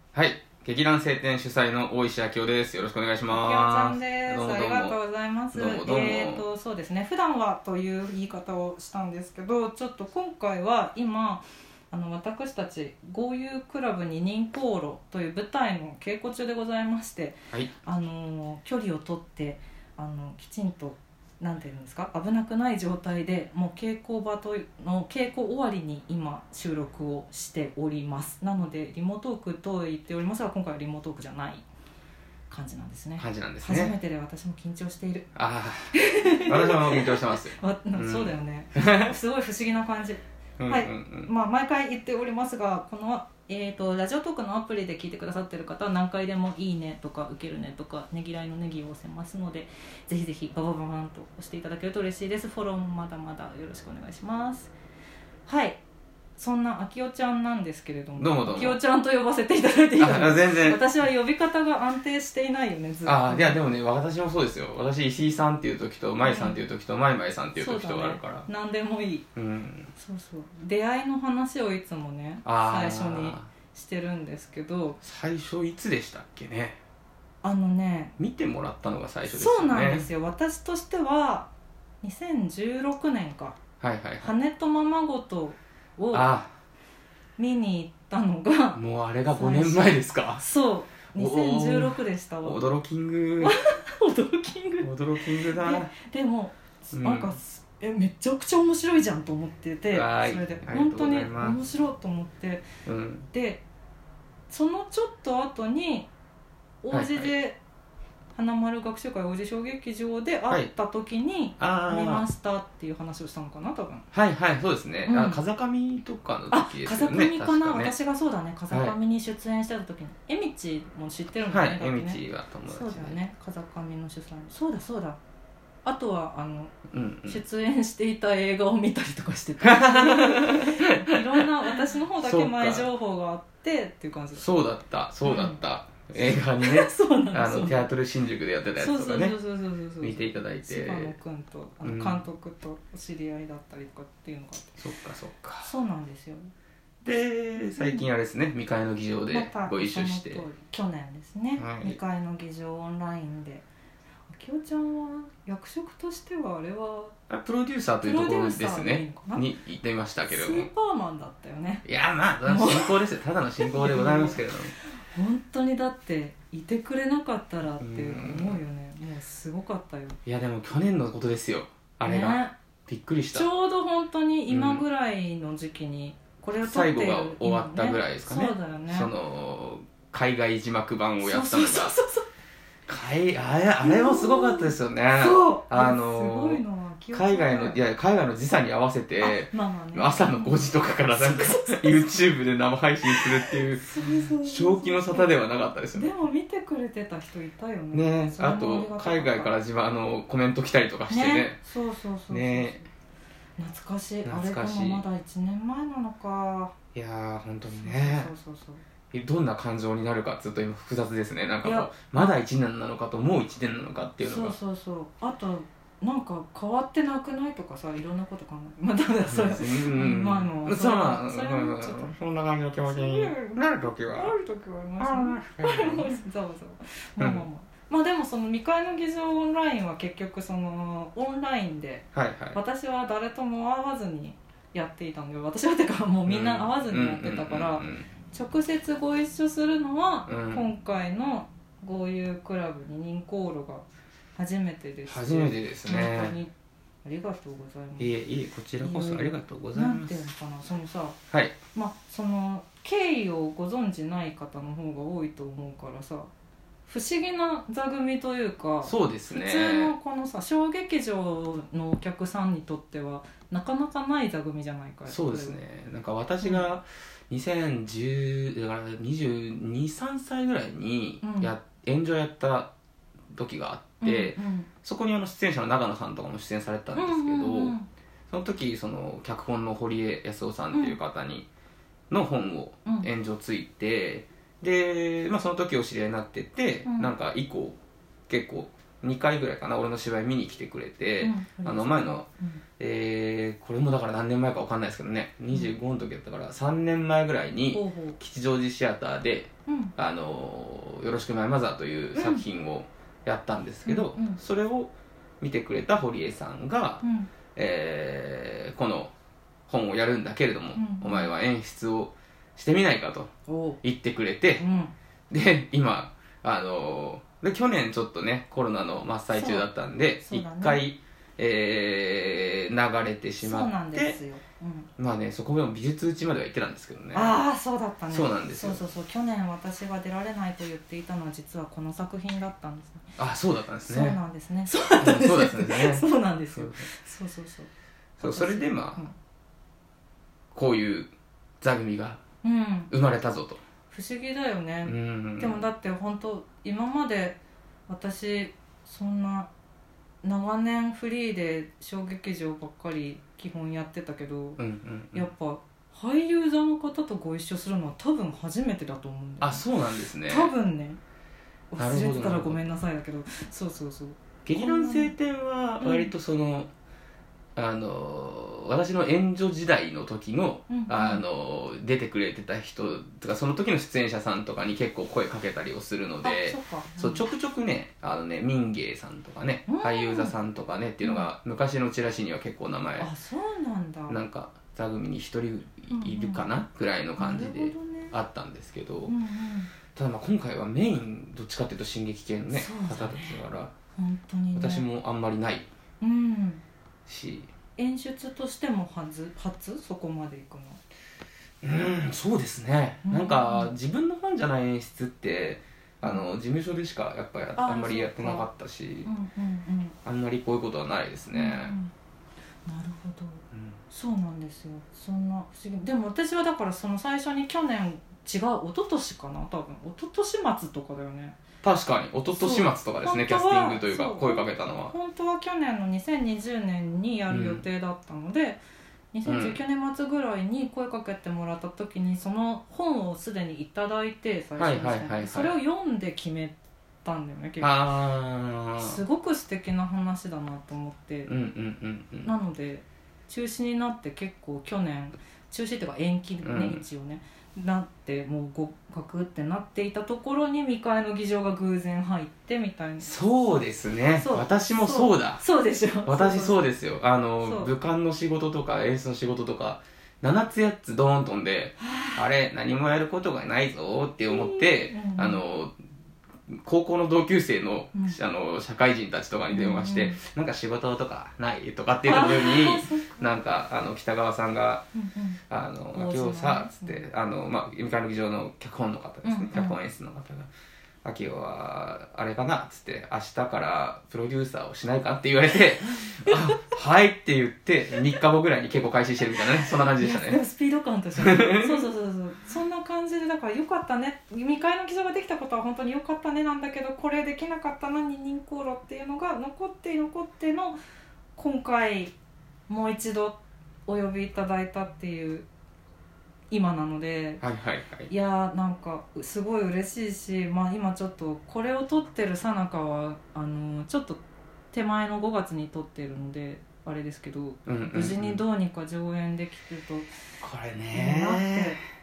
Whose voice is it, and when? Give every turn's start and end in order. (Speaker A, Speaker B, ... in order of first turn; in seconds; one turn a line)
Speaker A: 0.1-5.0
Speaker B: 3.3-31.6
Speaker A: 5.5-6.4
Speaker B: 32.5-35.3
Speaker A: 33.2-34.0
Speaker A: 35.4-39.1
Speaker B: 35.9-54.7
Speaker A: 40.6-41.3
Speaker B: 55.5-55.8
Speaker B: 56.4-63.6
Speaker A: 58.2-58.8
Speaker A: 60.0-60.9
Speaker A: 63.1-68.5
Speaker B: 66.2-66.6
Speaker B: 67.6-69.3
Speaker A: 69.3-69.9
Speaker B: 70.0-75.0
Speaker A: 72.5-73.5
Speaker A: 75.0-76.8
Speaker B: 77.4-78.2
Speaker A: 78.2-80.1
Speaker B: 79.3-81.5
Speaker B: 82.0-83.6
Speaker A: 83.8-84.3
Speaker B: 84.2-86.3
Speaker A: 86.1-86.6
Speaker B: 87.4-88.8
Speaker A: 88.8-90.4
Speaker B: 89.3-92.6
Speaker A: 91.2-93.6
Speaker B: 93.4-102.7
Speaker A: 94.8-95.9
Speaker A: 96.9-97.3
Speaker A: 99.9-101.6
Speaker A: 102.9-103.3
Speaker B: 103.3-103.6
Speaker B: 104.5-106.1
Speaker B: 106.8-107.6
Speaker A: 106.9-107.3
Speaker B: 108.3-114.1
Speaker A: 111.6-112.2
Speaker A: 114.1-117.9
Speaker B: 115.0-115.4
Speaker B: 116.5-125.2
Speaker A: 118.7-119.0
Speaker A: 121.5-123.2
Speaker B: 125.8-126.8
Speaker A: 126.9-127.4
Speaker B: 127.3-134.4
Speaker A: 129.6-131.4
Speaker A: 132.2-132.9
Speaker A: 134.3-139.4
Speaker B: 135.2-135.6
Speaker B: 136.2-137.9
Speaker B: 138.8-144.8
Speaker A: 140.0-141.2
Speaker A: 141.8-142.2
Speaker A: 144.8-145.7
Speaker B: 145.6-146.5
Speaker A: 147.0-150.5
Speaker B: 147.8-148.1
Speaker B: 149.3-153.7
Speaker A: 151.6-152.0
Speaker B: 154.3-157.2
Speaker A: 157.3-160.7
Speaker B: 158.0-159.5
Speaker B: 160.3-161.9
Speaker A: 161.8-164.8
Speaker B: 162.5-163.0
Speaker B: 163.6-164.4
Speaker B: 165.0-170.2
Speaker A: 167.8-168.6
Speaker A: 170.3-173.5
Speaker B: 172.1-172.5
Speaker B: 173.3-179.1
Speaker A: 174.5-174.8
Speaker A: 176.6-181.9
Speaker B: 181.2-182.3
Speaker A: 182.9-196.1
Speaker B: 183.8-187.8
Speaker B: 189.2-192.2
Speaker B: 193.1-199.6
Speaker A: 197.9-201.6
Speaker B: 201.1-202.8
Speaker A: 202.3-202.8
Speaker B: 203.6-206.8
Speaker A: 204.2-205.0
Speaker A: 206.9-208.3
Speaker B: 207.8-208.8
Speaker A: 209.1-214.6
Speaker B: 211.6-212.4
Speaker B: 214.2-222.1
Speaker A: 219.3-224.3
Speaker B: 222.8-246.5
Speaker A: 225.0-226.1
Speaker A: 227.2-227.5
Speaker A: 232.1-232.6
Speaker A: 236.3-238.1
Speaker A: 240.3-240.7
Speaker A: 245.1-246.4
Speaker B: 247.0-248.1
Speaker A: 248.0-250.2
Speaker B: 248.8-251.2
Speaker A: 251.3-251.6
Speaker B: 251.7-256.3
Speaker B: 256.9-265.6
Speaker A: 258.8-259.9
Speaker A: 265.1-272.7
Speaker B: 266.4-266.7
Speaker B: 271.2-271.5
Speaker A: 273.3-277.8
Speaker B: 274.0-274.7
Speaker B: 276.9-277.9
Speaker A: 278.3-281.5
Speaker A: 282.1-292.3
Speaker B: 286.9-287.1
Speaker B: 291.2-292.6
Speaker A: 292.8-307.0
Speaker B: 297.7-298.2
Speaker B: 299.7-299.9
Speaker B: 302.1-302.4
Speaker B: 303.9-304.4
Speaker B: 307.0-307.3
Speaker A: 307.6-309.1
Speaker A: 309.7-314.6
Speaker B: 310.7-311.3
Speaker B: 313.5-313.8
Speaker B: 314.6-314.9
Speaker A: 315.3-324.2
Speaker B: 319.3-319.7
Speaker B: 320.2-320.8
Speaker B: 323.4-324.9
Speaker A: 325.0-327.4
Speaker B: 327.1-333.2
Speaker A: 328.1-328.8
Speaker A: 333.2-334.2
Speaker B: 333.9-339.1
Speaker A: 334.9-336.9
Speaker A: 338.2-339.0
Speaker A: 340.5-342.2
Speaker B: 342.4-342.9
Speaker A: 342.9-343.6
Speaker B: 343.9-349.5
Speaker A: 344.9-345.7
Speaker B: 350.2-354.6
Speaker A: 354.6-355.3
Speaker B: 355.1-359.6
Speaker A: 359.4-360.5
Speaker B: 360.3-361.0
Speaker B: 361.7-365.1
Speaker A: 361.8-362.6
Speaker A: 364.4-366.7
Speaker B: 365.8-366.1
Speaker A: 367.6-383.1
Speaker B: 370.7-371.2
Speaker B: 376.2-377.3
Speaker B: 379.7-380.3
Speaker B: 381.0-381.3
Speaker B: 383.0-384.2
Speaker A: 384.1-389.1
Speaker B: 385.9-386.6
Speaker B: 387.2-388.2
Speaker B: 389.1-389.7
Speaker A: 389.9-393.7
Speaker B: 392.5-393.4
Speaker B: 394.0-394.9
Speaker A: 394.6-395.7
Speaker B: 396.0-396.6
Speaker A: 397.1-397.5
Speaker B: 397.8-400.8
Speaker A: 401.6-409.1
Speaker B: 403.1-403.7
Speaker B: 407.6-408.5
Speaker B: 409.1-410.0
Speaker A: 410.1-411.8
Speaker B: 411.3-411.9
Speaker B: 412.7-421.4
Speaker A: 413.5-413.8
Speaker A: 421.6-424.9
Speaker B: 422.3-428.6
Speaker A: 427.3-427.6
Speaker B: 429.1-437.9
Speaker A: 429.2-429.6
Speaker A: 434.6-435.6
Speaker A: 437.6-439.0
Speaker B: 438.8-441.3
Speaker A: 441.3-442.3
Speaker B: 442.2-453.6
Speaker A: 446.4-446.8
Speaker A: 453.0-455.4
Speaker B: 454.2-456.6
Speaker A: 456.1-465.7
Speaker B: 457.4-457.7
Speaker B: 461.8-462.3
Speaker B: 464.2-465.4
Speaker A: 466.5-474.9
Speaker B: 469.5-470.2
Speaker B: 472.1-473.2
Speaker B: 474.9-475.4
Speaker A: 475.5-480.5
Speaker B: 475.9-477.1
Speaker B: 479.2-479.8
Speaker A: 481.0-490.4
Speaker B: 486.3-486.6
Speaker B: 490.0-500.8
Speaker A: 491.2-491.9
Speaker B: 501.4-502.1
Speaker B: 502.7-505.5
Speaker B: 506.5-507.4
Speaker A: 507.4-508.1
Speaker B: 508.1-514.2
Speaker B: 514.7-520.1
Speaker A: 517.7-518.4
Speaker A: 520.4-521.8
Speaker B: 520.9-521.8